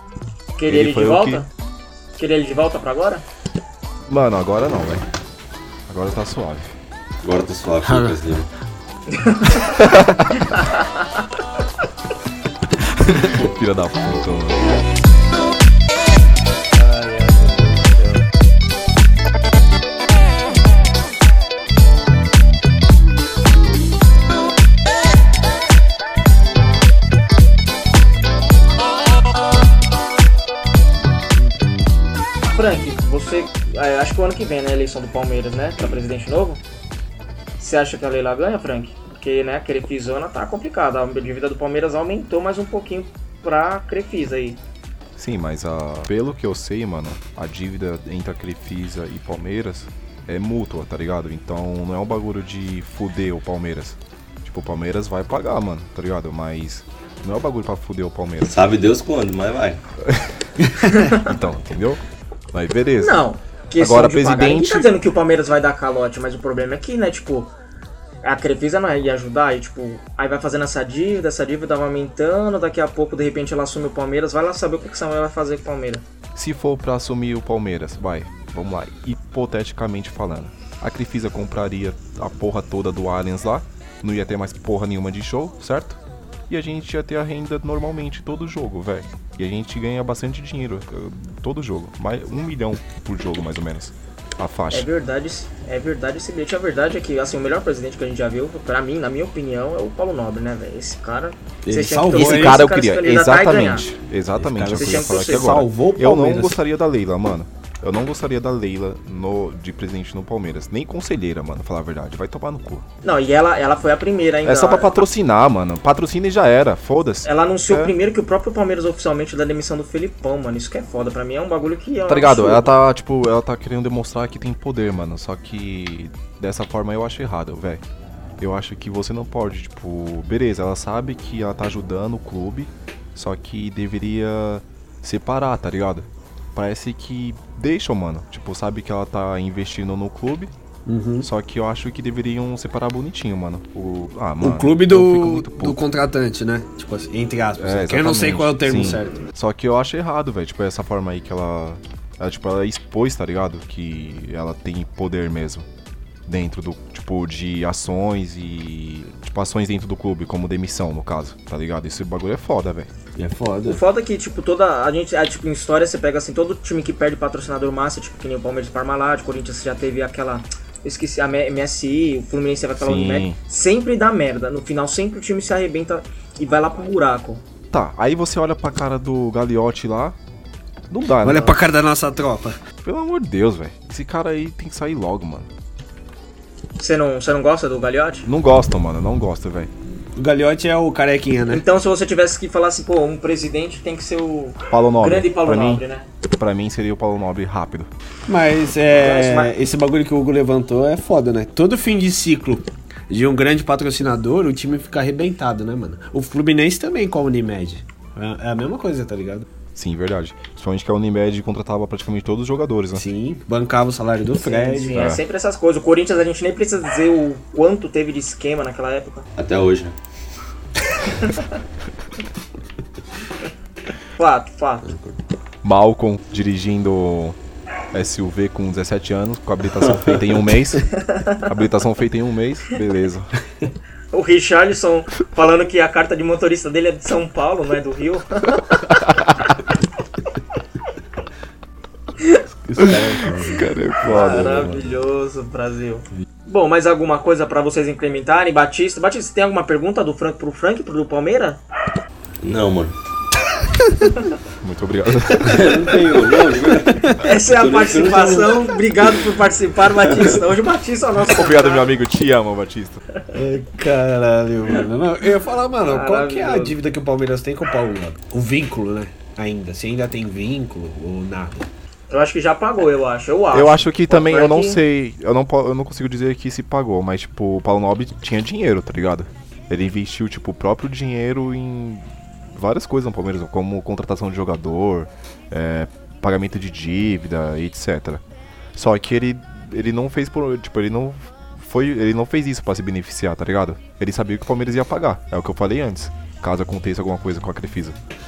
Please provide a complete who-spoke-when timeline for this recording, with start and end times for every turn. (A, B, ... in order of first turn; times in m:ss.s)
0:00.6-0:01.5 A
0:00.7-0:01.5 B
0:02.2-0:03.2 A
0:04.1-0:05.0 B
0:05.9-0:06.7 B
0:07.2-0:08.5 C
0:07.8-0:08.2 D
0:09.1-0:11.2 A
0:09.8-0:10.3 B
0:13.0-0:13.3 D
0:13.3-0:14.8 B
0:16.7-0:18.2 A
0:32.4-0:36.6 A
0:37.6-0:44.6 A
0:45.2-0:58.6 B
0:58.4-0:59.8 C
1:00.0-1:00.4 B
1:00.9-1:01.3 A
1:01.1-1:02.0 B
1:02.5-1:03.2 B
1:03.0-1:07.5 A
1:03.8-1:04.9 B
1:08.2-1:16.0 A
1:16.4-1:34.9 B
1:34.7-1:43.9 A
1:41.7-1:42.6 D
1:42.1-1:52.8 B
1:44.4-1:46.6 D
1:44.8-1:45.6 A
1:53.0-1:55.0 A
1:54.4-1:57.9 B
1:57.2-2:02.7 A
2:02.1-2:07.8 B
2:08.4-2:20.5 B
2:20.9-2:21.3 D
2:21.2-2:25.8 B
2:24.4-2:29.2 D
2:27.6-2:35.7 B
2:36.3-2:42.9 B
2:43.2-2:43.8 D
2:43.6-2:57.4 A
2:52.8-2:53.4 B
2:57.7-3:00.2 B
3:00.9-3:01.6 B
3:01.2-3:02.6 D
3:02.8-3:05.5 B
3:06.8-3:08.3 A
3:08.2-3:09.7 B
3:10.2-3:11.6 D
3:11.5-3:16.1 A
3:14.7-3:15.8 B
3:16.4-3:17.9 B
3:18.3-3:29.5 D
3:18.9-3:19.5 A
3:29.8-3:33.0 B
3:33.0-3:35.0 D
3:34.4-3:39.3 A
3:34.9-3:35.2 B
3:39.4-3:40.0 C
3:41.1-3:41.5 A
3:44.2-3:44.9 A
3:44.9-3:45.2 C
3:45.6-3:47.4 B
3:47.9-3:50.9 B
3:49.8-3:50.2 C
3:51.1-3:51.4 A
3:51.4-3:53.3 B
3:54.1-3:58.8 A
3:58.7-3:59.4 B
4:02.6-4:03.7 D
4:02.8-4:04.9 B
4:04.0-4:11.6 A
4:12.4-4:12.9 C
4:14.6-4:15.8 B
4:15.4-4:17.1 D
4:15.4-4:18.8 C
4:17.2-4:21.9 A
4:20.0-4:20.3 C
4:21.3-4:23.0 B
4:23.3-4:31.7 D
4:25.9-4:26.8 A
4:32.1-4:34.8 A
4:33.5-4:48.2 B
4:48.8-4:58.0 B